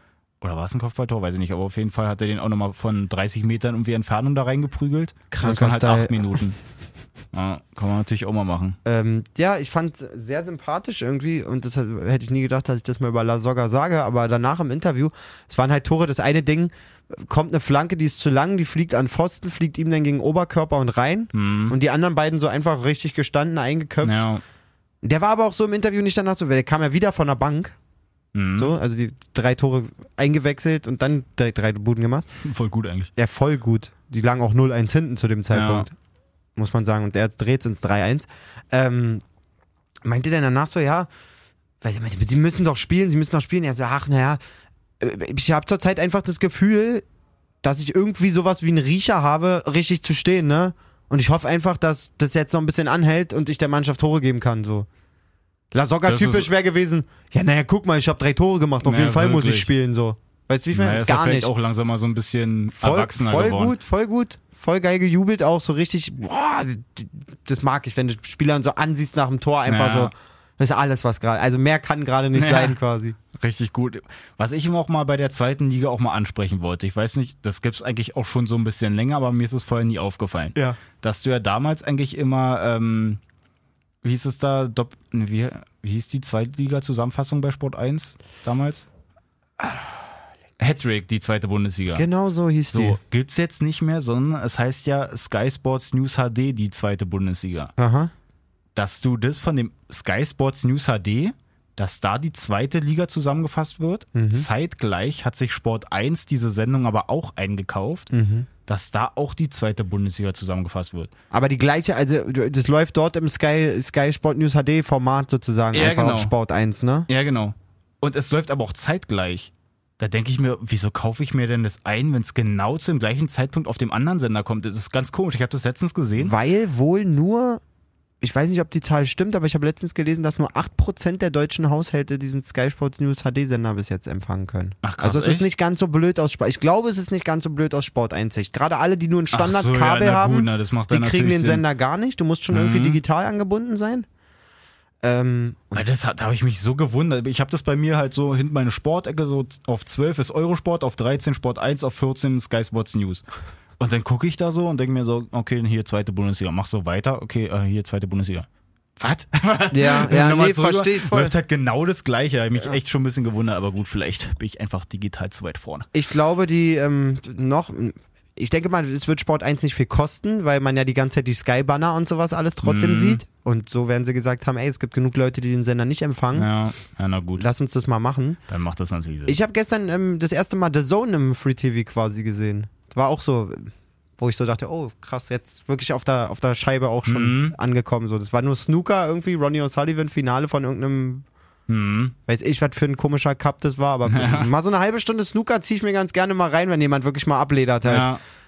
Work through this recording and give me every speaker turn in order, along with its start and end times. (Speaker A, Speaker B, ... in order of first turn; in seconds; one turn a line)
Speaker A: 0.4-6.5
Speaker B: 5.3-6.3
Speaker A: 7.3-8.8
Speaker B: 8.8-24.2
Speaker A: 21.3-21.7
Speaker A: 24.0-24.4
Speaker B: 25.0-27.7
Speaker A: 28.3-28.7
Speaker B: 28.6-32.2
Speaker A: 32.4-33.1
Speaker B: 33.1-35.9
Speaker A: 35.5-35.9
Speaker B: 36.6-39.2
Speaker B: 40.0-41.1
Speaker B: 41.8-44.4
Speaker B: 45.0-47.0
Speaker B: 47.6-54.9
Speaker B: 55.7-61.5
Speaker A: 56.0-56.5
Speaker A: 58.8-59.7
Speaker A: 60.7-63.8
Speaker B: 62.8-73.2
Speaker A: 69.7-70.1
Speaker A: 72.3-72.8
Speaker A: 73.3-83.2
Speaker A: 84.0-88.9
Speaker A: 90.6-92.0
Speaker B: 91.9-93.0
Speaker A: 92.7-97.7
Speaker B: 97.8-98.1
Speaker A: 98.7-108.1
Speaker B: 104.1-104.5
Speaker B: 108.1-108.5
Speaker A: 108.7-111.1
Speaker B: 111.3-117.1
Speaker A: 115.7-116.3
Speaker A: 117.1-126.3
Speaker B: 126.2-127.6
Speaker B: 128.2-144.1
Speaker A: 134.8-135.5
Speaker A: 139.3-141.6
Speaker A: 142.5-143.0
Speaker B: 145.0-145.8
Speaker A: 145.7-153.2
Speaker A: 153.8-165.9
Speaker B: 159.7-161.3
Speaker B: 165.9-176.5
Speaker A: 172.6-173.2
Speaker A: 176.3-177.4
Speaker B: 177.4-178.4
Speaker A: 178.5-179.4
Speaker B: 179.3-191.2
Speaker A: 187.1-187.6
Speaker A: 191.7-192.1
Speaker B: 192.3-198.1
Speaker A: 194.1-194.5
Speaker A: 197.8-198.2